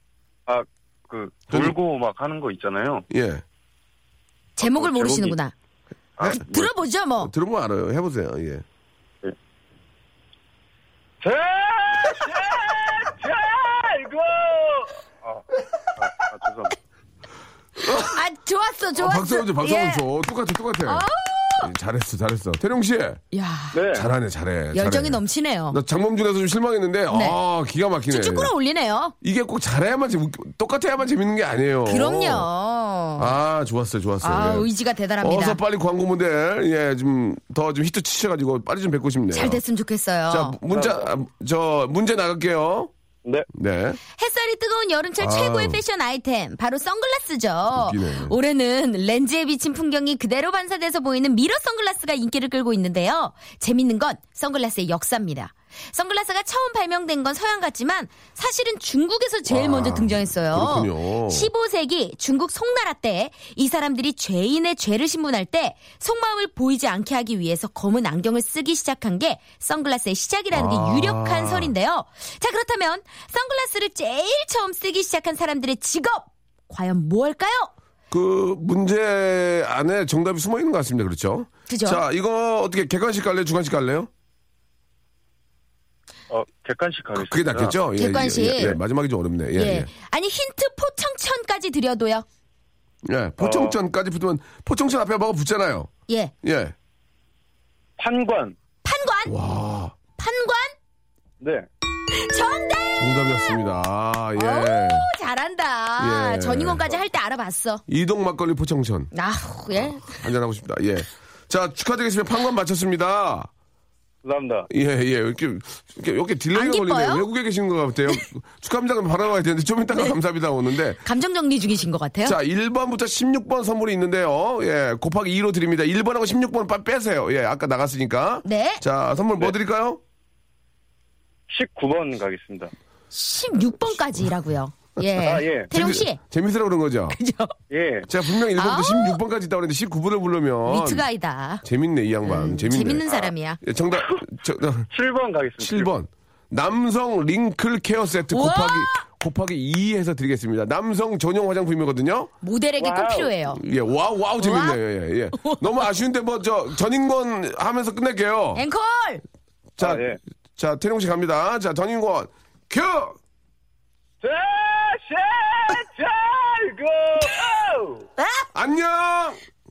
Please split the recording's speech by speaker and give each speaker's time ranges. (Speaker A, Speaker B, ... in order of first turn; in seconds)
Speaker A: 0.5-3.0, 4.6-5.3, 6.2-6.7, 11.2-15.4, 16.0-16.8, 23.7-24.1, 40.7-41.1, 86.3-87.8, 93.4-93.8, 98.0-98.5, 101.4-101.7, 114.2-114.7, 131.5-132.7, 135.2-135.7, 137.7-138.1, 144.9-145.9, 152.8-153.3, 159.8-160.2, 164.2-168.0
Speaker B: 1.5-1.7, 3.1-3.4, 6.2-6.4, 7.2-8.6, 17.8-18.2, 19.0-21.1, 21.6-23.2, 23.8-28.5, 29.2-32.5, 33.2-39.6, 40.3-42.9, 43.5-44.0, 45.2-45.8, 47.7-48.4, 59.5-61.5, 70.5-71.7, 78.1-84.1, 87.1-89.9, 93.0-95.9, 96.4-96.7, 99.2-99.9, 103.0-105.1, 106.0-106.9, 107.9-109.1, 109.7-113.5, 114.7-121.0, 122.2-130.0, 135.7-137.2, 138.1-141.0, 141.6-144.9, 145.6-152.3, 153.5-158.6, 159.8-163.2, 168.5-169.4
Speaker C: 4.6-5.5, 6.5-7.3, 18.1-20.1, 20.8-21.7, 23.3-23.8, 24.7-25.8, 27.1-27.4, 28.1-29.1, 31.9-33.3, 34.2-35.6, 39.3-40.5, 44.2-77.7, 81.7-82.0, 87.9-88.8, 89.6-92.2, 96.1-96.3, 98.8-99.3, 100.2-100.7, 102.2-103.6, 104.3-107.8, 109.1-110.2, 116.5-117.3, 121.0-122.4, 128.4-128.8, 133.1-136.2, 137.1-137.5, 138.5-139.2, 140.7-141.6, 142.2-143.6, 148.3-149.0, 152.4-153.6, 154.4-154.8, 155.4-155.6, 158.5-159.2, 168.2-168.5